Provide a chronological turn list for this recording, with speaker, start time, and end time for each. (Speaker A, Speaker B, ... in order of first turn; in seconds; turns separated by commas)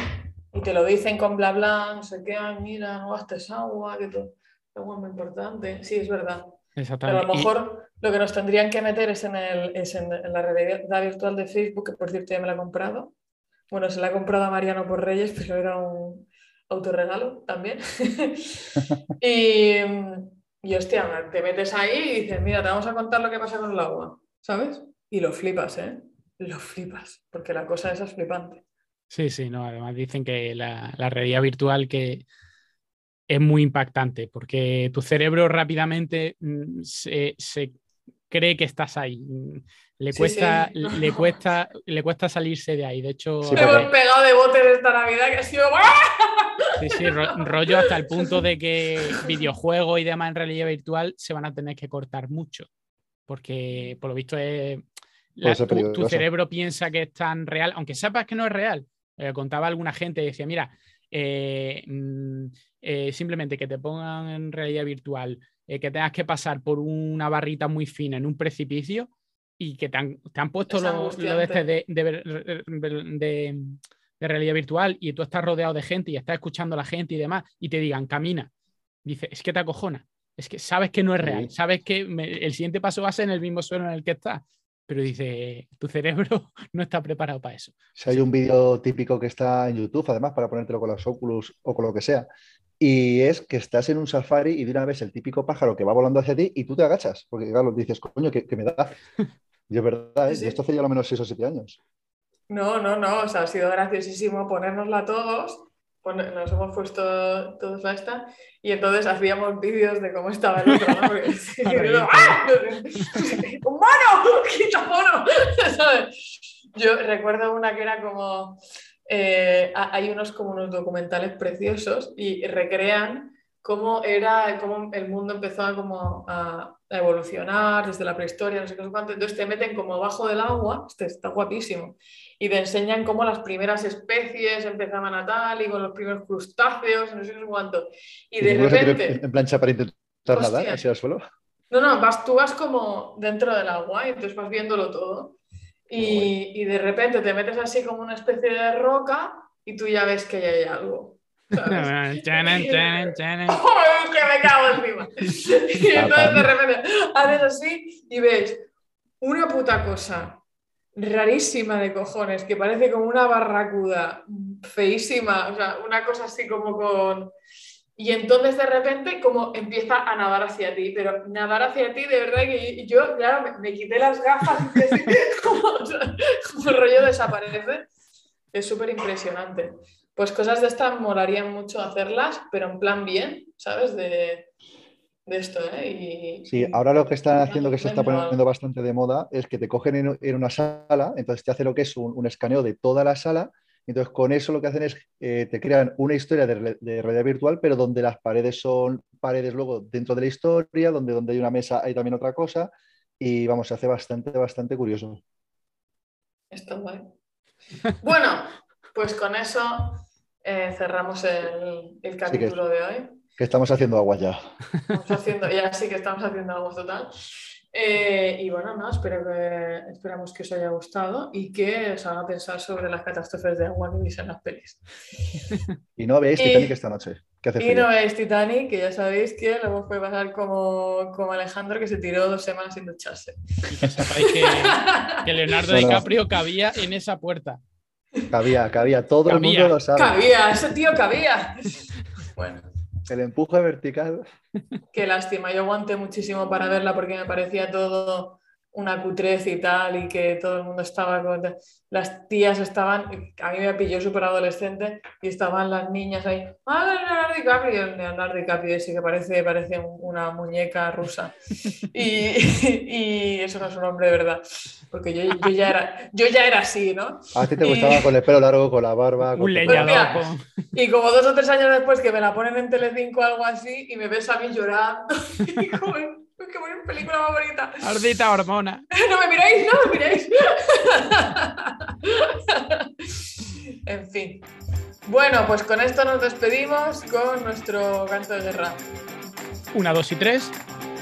Speaker A: 0.5-13.1, Speaker B: 6.8-7.5, Speaker A: 13.7-28.6, Speaker B: 29.1-32.2, Speaker B: 33.3-37.7, Speaker B: 38.3-43.9, Speaker A: 40.1-41.4, Speaker C: 43.4-43.9, Speaker A: 43.5-48.3, Speaker B: 46.8-52.7, Speaker B: 53.3-54.8, Speaker B: 55.4-78.5, Speaker C: 55.4-56.2, Speaker A: 70.7-71.7, Speaker B: 79.0-88.2, Speaker C: 81.2-81.5, Speaker C: 88.0-92.3, Speaker C: 92.8-98.9, Speaker C: 99.7-101.8, Speaker A: 100.3-100.6, Speaker A: 102.5-139.2, Speaker B: 111.6-112.4, Speaker C: 138.4-141.2, Speaker A: 140.3-140.8, Speaker A: 141.7-145.4, Speaker A: 145.9-158.7, Speaker C: 146.0-146.3, Speaker B: 151.6-153.6, Speaker C: 155.9-156.5, Speaker A: 159.2-160.4, Speaker A: 160.9-167.3, Speaker A: 168.0-177.9, Speaker A: 178.5-184.5, Speaker A: 185.2-188.4, Speaker C: 186.5-205.2, Speaker A: 206.5-207.1, Speaker A: 207.9-213.2, Speaker C: 212.3-212.6, Speaker C: 213.4-214.4, Speaker A: 214.9-224.8, Speaker C: 226.0-227.9, Speaker A: 226.4-226.7, Speaker A: 227.6-235.2, Speaker B: 233.7-237.6, Speaker C: 235.7-236.1, Speaker C: 238.3-240.2, Speaker B: 239.2-239.7, Speaker A: 239.9-242.7, Speaker C: 243.1-244.2, Speaker A: 244.9-261.3, Speaker A: 261.9-268.1, Speaker C: 267.3-270.1, Speaker B: 269.4-270.4, Speaker A: 269.7-277.8, Speaker B: 277.8-278.9, Speaker A: 278.9-284.5, Speaker A: 285.1-288.8, Speaker B: 289.7-290.6